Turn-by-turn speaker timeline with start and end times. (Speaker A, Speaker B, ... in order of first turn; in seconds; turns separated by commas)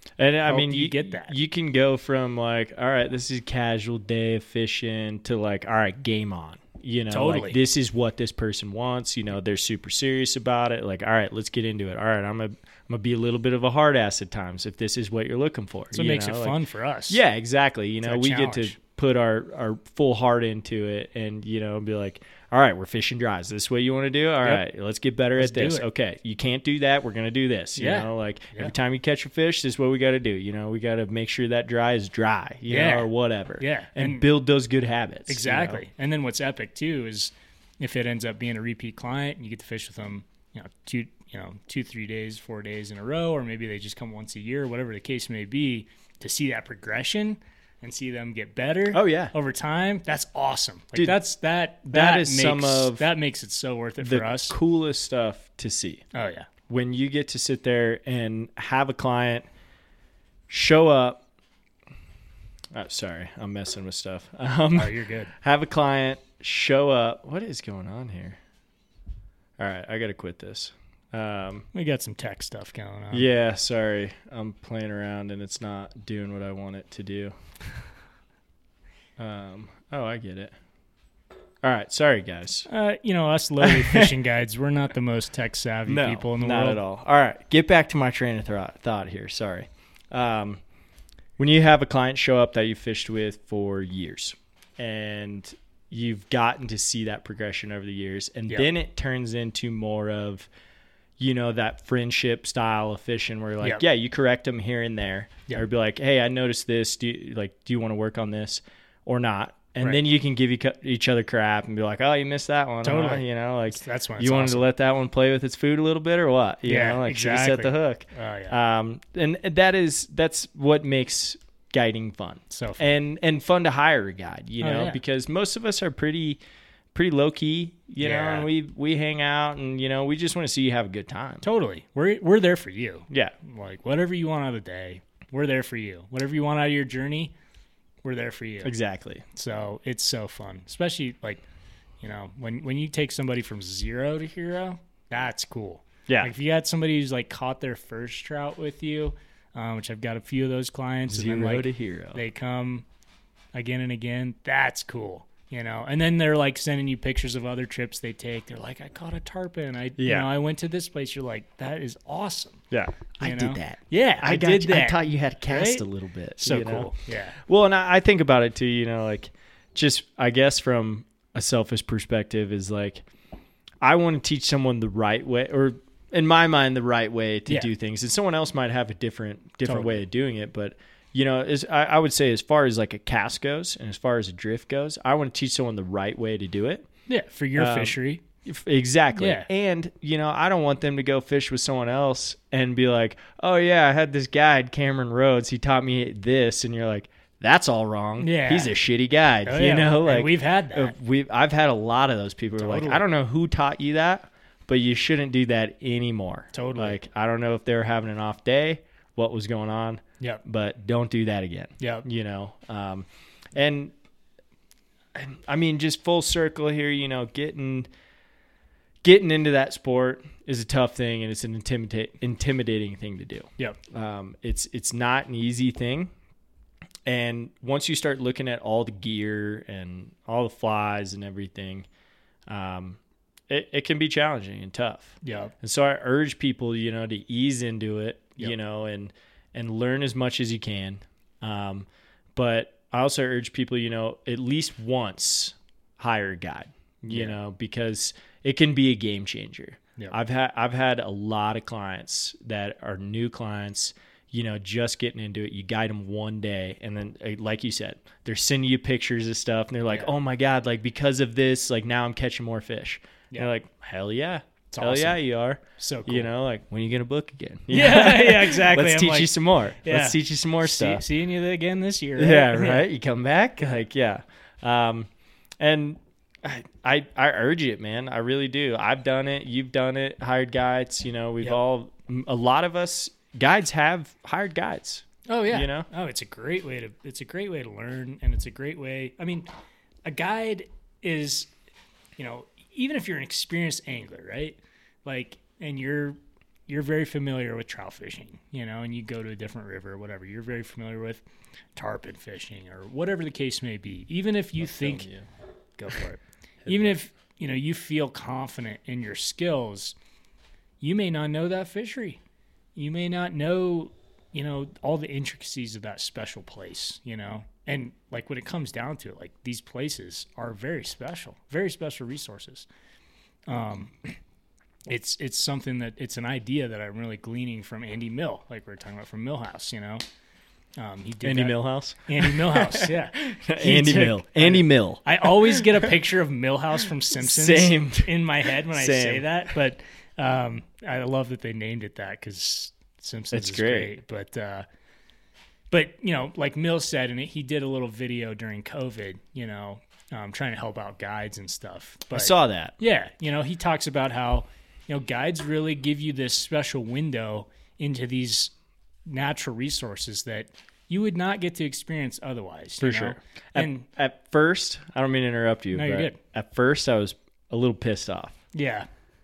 Speaker A: 0.2-35.8, Speaker B: 0.5-1.4, Speaker B: 7.1-7.6, Speaker B: 15.9-17.2, Speaker B: 18.0-18.8, Speaker B: 25.4-25.9, Speaker B: 27.8-28.7, Speaker B: 32.7-34.3, Speaker B: 35.3-54.5, Speaker A: 48.9-49.3, Speaker A: 51.9-53.1, Speaker A: 54.0-56.0, Speaker B: 56.1-56.5, Speaker A: 56.7-59.5, Speaker A: 60.5-61.2, Speaker A: 62.7-68.4, Speaker B: 64.8-65.3, Speaker A: 69.6-71.7, Speaker B: 71.7-73.3, Speaker A: 73.1-77.3, Speaker A: 79.2-80.5, Speaker A: 81.6-82.7, Speaker B: 82.7-86.8, Speaker A: 83.6-84.1, Speaker A: 85.9-90.6, Speaker A: 91.4-100.5, Speaker A: 101.2-126.4, Speaker B: 112.8-114.7, Speaker B: 116.7-118.6, Speaker B: 122.5-122.8, Speaker B: 124.6-125.0, Speaker A: 126.9-131.4, Speaker B: 128.0-128.5, Speaker B: 131.4-137.3, Speaker A: 133.1-133.3, Speaker B: 138.0-138.7, Speaker A: 138.6-139.2, Speaker B: 139.3-141.4, Speaker B: 142.0-152.8, Speaker A: 151.1-152.2, Speaker B: 153.5-162.6, Speaker A: 160.0-160.3, Speaker A: 162.7-173.0, Speaker B: 163.2-165.8, Speaker B: 166.4-167.4, Speaker A: 173.8-186.9, Speaker B: 179.6-180.0, Speaker B: 187.1-188.2, Speaker A: 187.6-213.9, Speaker B: 189.2-189.5, Speaker B: 198.2-198.7, Speaker B: 199.5-200.9, Speaker B: 202.6-203.1, Speaker B: 206.5-207.0, Speaker B: 211.8-212.1, Speaker A: 215.1-217.9, Speaker A: 219.0-226.1, Speaker A: 227.1-231.9, Speaker A: 232.5-271.1, Speaker B: 235.2-235.5, Speaker B: 247.1-247.3, Speaker B: 264.7-265.2, Speaker B: 265.8-266.3, Speaker B: 267.7-272.9, Speaker A: 272.2-275.1, Speaker A: 275.6-285.9, Speaker B: 285.3-289.5, Speaker B: 290.1-291.5, Speaker B: 292.2-301.2, Speaker B: 301.8-305.1, Speaker A: 304.6-305.3, Speaker B: 305.8-309.9, Speaker A: 306.7-306.9, Speaker B: 310.8-312.2, Speaker B: 312.8-322.7, Speaker B: 323.5-324.1, Speaker B: 324.9-330.0, Speaker B: 330.8-344.7, Speaker A: 331.2-335.9, Speaker A: 337.2-339.5, Speaker A: 343.3-344.0, Speaker B: 345.7-358.5, Speaker A: 352.1-352.8, Speaker B: 359.1-363.9, Speaker A: 362.8-368.4, Speaker B: 365.7-366.2, Speaker B: 368.5-368.9